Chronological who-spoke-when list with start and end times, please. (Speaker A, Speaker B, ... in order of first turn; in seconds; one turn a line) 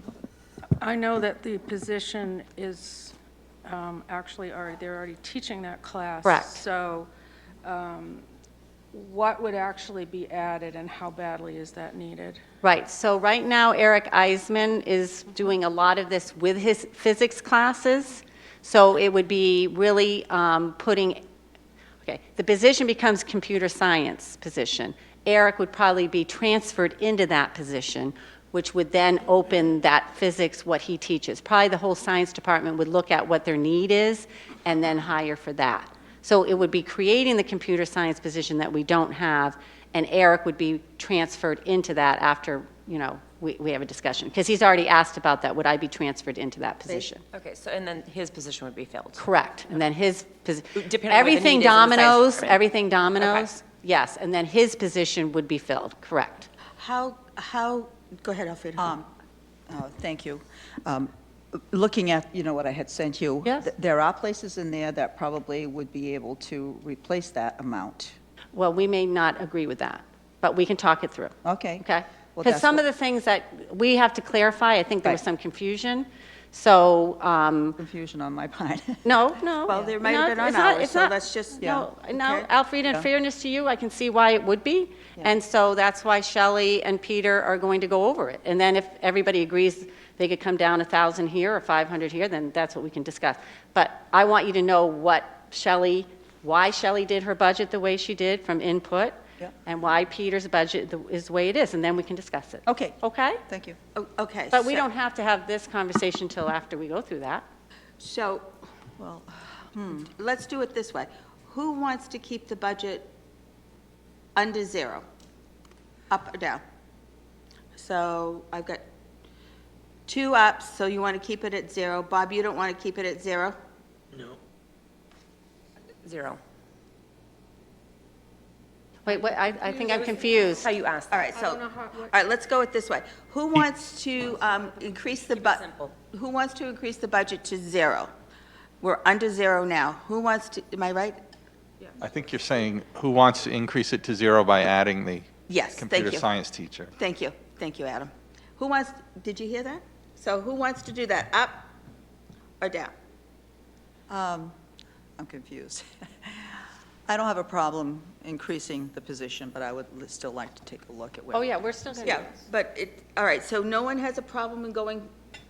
Speaker A: 0.8-7.1
Speaker B: 6.2-6.6
Speaker A: 7.6-8.2
Speaker A: 8.9-12.4
Speaker B: 12.6-21.2
Speaker B: 22.0-47.2
Speaker C: 47.3-49.2
Speaker B: 49.2-56.5
Speaker C: 50.8-52.6
Speaker C: 53.2-53.5
Speaker D: 56.8-59.0
Speaker E: 58.8-59.1
Speaker E: 59.7-68.2
Speaker B: 68.5-77.8
Speaker E: 71.4-72.8
Speaker E: 77.8-79.9
Speaker B: 79.0-103.4
Speaker D: 79.7-82.5
Speaker E: 81.6-81.9
Speaker E: 102.7-103.8
Speaker D: 104.0-104.8
Speaker B: 104.5-107.5
Speaker D: 108.0-108.5
Speaker E: 109.0-110.1
Speaker D: 110.2-113.1
Speaker D: 114.4-115.0
Speaker D: 116.1-116.6
Speaker D: 117.8-118.8
Speaker D: 120.1-123.6
Speaker C: 126.0-126.4
Speaker B: 129.1-130.7
Speaker A: 130.0-130.5
Speaker C: 130.6-131.5
Speaker D: 131.1-138.1
Speaker A: 131.5-132.1
Speaker C: 134.5-135.9
Speaker D: 138.8-141.2
Speaker F: 142.0-146.9
Speaker D: 145.5-146.3
Speaker D: 147.0-151.7
Speaker D: 152.6-152.9
Speaker E: 154.1-154.5
Speaker E: 155.2-162.3
Speaker B: 161.3-162.3
Speaker D: 162.1-165.1